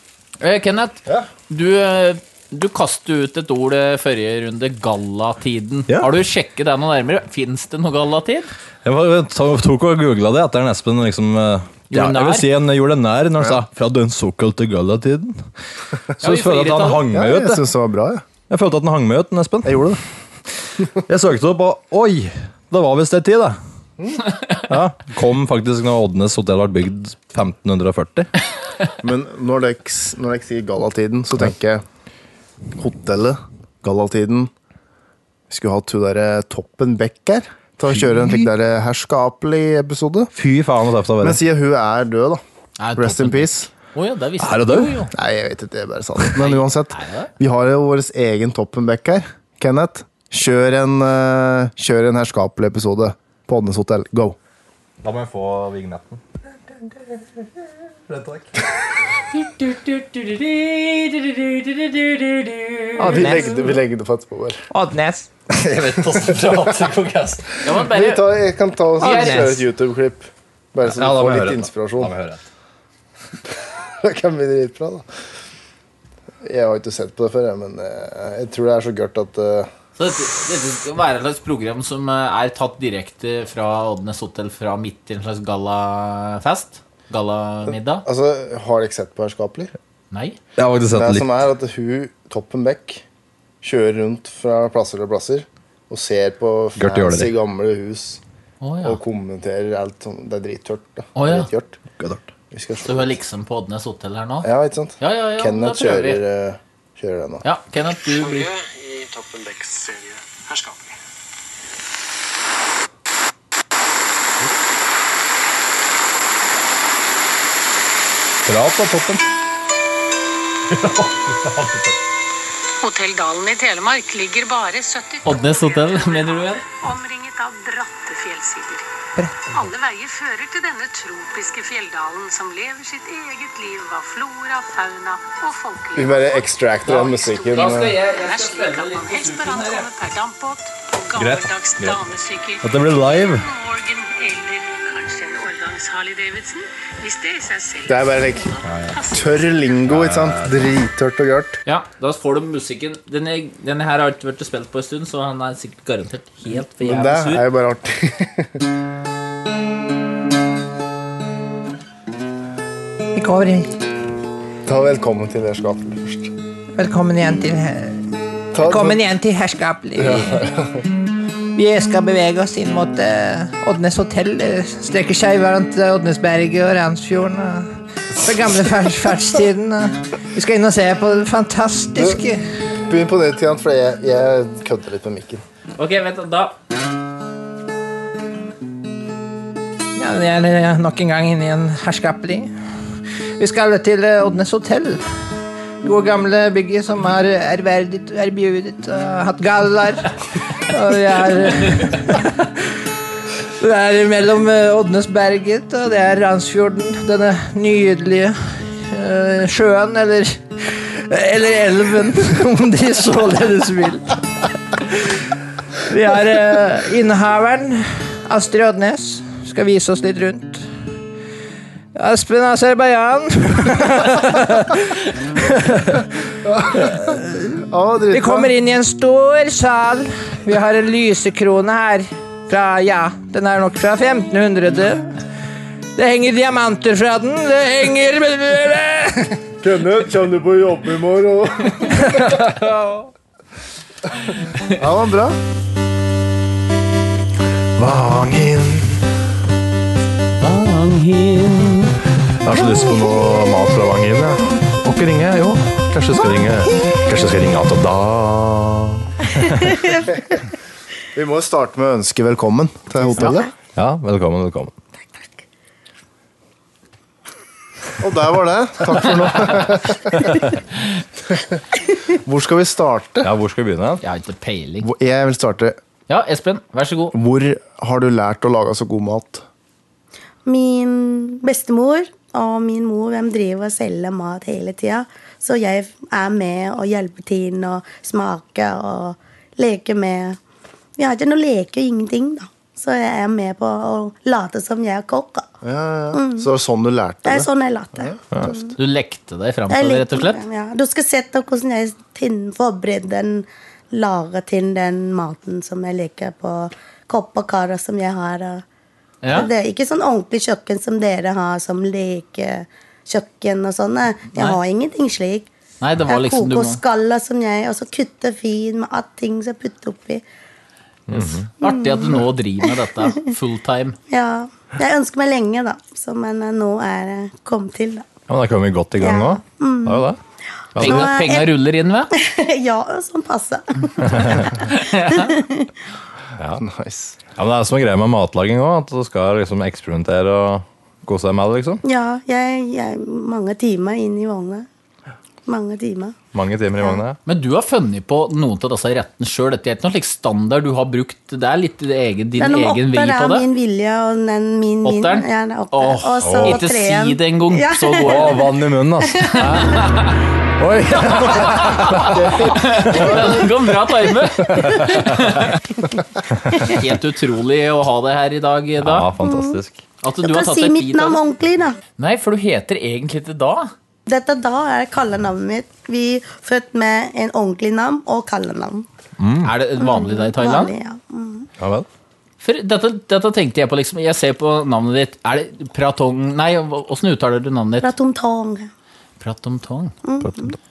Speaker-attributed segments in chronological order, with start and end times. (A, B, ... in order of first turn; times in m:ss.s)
0:00.4-0:08.5 A
0:08.8-0:15.4 B
0:11.9-0:12.5 A
0:16.1-0:17.7 B
0:16.2-0:17.0 A
0:17.1-0:18.2 C
0:18.5-0:20.0 B
0:19.6-0:20.0 C
0:21.1-0:23.6 B
0:24.7-0:28.3 B
0:29.0-0:31.8 C
0:32.8-0:34.5 C
0:35.5-0:40.3 C
0:40.4-0:41.4 B
0:41.2-0:42.4 C
0:42.8-0:45.1 A
0:43.0-0:43.7 C
0:44.4-0:45.0 B
0:45.1-0:54.4 C
0:46.4-0:47.3 A
0:55.0-0:56.2 B
0:58.1-0:58.5 B
0:59.4-1:03.0 A
1:03.0-1:03.7 D
1:03.0-1:04.6 C
1:04.7-1:05.3 D
1:05.6-1:07.6 B
1:05.8-1:06.7 C
1:07.6-1:08.3 A
1:07.7-1:12.1 C
1:09.0-1:09.6 A
1:09.0-1:09.6 D
1:10.8-1:12.4 B
1:14.0-1:15.0 C
1:16.4-1:19.7 C
1:20.0-1:28.1 A
1:28.0-1:29.7 C
1:30.1-1:30.4 A
1:30.6-1:31.3 B
1:30.9-1:33.0 C
1:33.6-1:38.2 C
1:36.8-1:37.3 B
1:38.6-1:39.0 A
1:38.8-1:41.8 C
1:41.2-1:41.5 A
1:42.0-1:42.2 B
1:42.5-1:43.2 C
1:42.8-1:44.5 A
1:44.4-1:47.4 C
1:45.0-1:46.2 A
1:47.4-1:48.5 A
1:48.1-1:51.0 E
1:58.5-1:59.3 B
2:00.7-2:02.0 B
2:02.8-2:08.9 F
2:05.2-2:06.6 A
2:09.2-2:09.4 D
2:09.5-2:29.5 F
2:16.0-2:18.0 C
2:16.8-2:19.9 A
2:21.2-2:22.0 B
2:22.6-2:23.4 B
2:27.9-2:28.5 C
2:28.6-2:29.0 B
2:29.1-2:31.6 C
2:29.9-2:30.7 B
2:31.7-2:37.4 A
2:36.8-2:38.6 C
2:43.2-2:43.7 D
2:44.7-2:46.3 C
2:46.8-2:48.0 D
2:48.5-2:49.0 C
2:48.6-2:50.5 D
2:50.0-2:50.8 C
2:51.6-3:02.4 D
3:02.0-3:02.2 C
3:02.8-3:05.4 C
3:05.8-3:06.6 A
3:10.0-3:12.5 D
3:13.4-3:15.0 D
3:15.8-3:20.1 D
3:20.7-3:22.5 D
3:23.6-3:34.2 D
3:35.9-3:40.6 D
3:42.0-3:46.1 D
3:46.5-3:47.2 C
3:46.7-3:55.1 D
3:47.7-3:48.5 C
3:56.0-3:59.4 D
3:59.6-4:02.0 C
4:04.7-4:05.4 C
4:07.8-4:09.0 B
4:10.6-4:11.7 D
4:12.4-4:19.8 B
4:21.2-4:23.5 C
4:23.8-4:24.7 B
4:28.0-4:30.2 C
4:32.1-4:33.3 C
4:33.2-4:34.0 B
4:34.0-4:34.9 A
4:34.8-4:35.8 C
4:36.1-4:37.2 A
4:37.1-4:39.4 C
4:40.5-4:50.4 G
4:51.0-4:55.5 G
4:55.6-4:58.7 C
4:56.1-4:56.5 G
4:57.2-4:58.7 G
4:58.8-5:00.4 A
4:59.7-5:08.6 G
5:09.2-5:09.5 A
5:09.3-5:15.5 G
5:14.3-5:14.6 A
5:15.8-5:16.8 A
5:16.1-5:20.2 G
5:21.1-5:21.5 B
5:21.1-5:24.0 A
5:21.6-5:22.2 G
5:24.1-5:28.1 G
5:28.3-5:30.2 B
5:29.0-5:30.0 G
5:30.8-5:31.1 B
5:30.8-5:31.5 G
5:30.8-5:32.1 A
5:32.1-5:35.7 G
5:34.1-5:34.4 B
5:34.6-5:35.3 A
5:36.4-5:36.6 B
5:36.6-5:37.2 C
5:37.4-5:41.8 B
5:41.8-5:44.7 G
5:45.5-5:46.2 G
5:46.3-5:47.2 B
5:47.3-5:53.5 A
5:52.4-5:58.4 G
5:54.8-5:58.4 A
5:56.2-5:56.6 B
5:58.0-5:59.7 B
5:59.1-5:59.8 G
5:59.4-6:00.2 A
6:00.6-6:02.2 B
6:01.0-6:05.6 A
6:02.2-6:02.9 C
6:03.0-6:03.3 B
6:04.5-6:04.9 B
6:06.6-6:09.1 A
6:08.8-6:09.8 B
6:09.2-6:09.6 G
6:10.0-6:11.2 A
6:10.2-6:11.8 G
6:12.0-6:13.7 A
6:14.1-6:18.9 G
6:19.2-6:19.5 B
6:19.4-6:20.7 A
6:19.8-6:21.5 G
6:21.6-6:21.9 B
6:22.4-6:27.9 A
6:27.8-6:28.7 G
6:29.2-6:29.9 A
6:30.0-6:30.6 G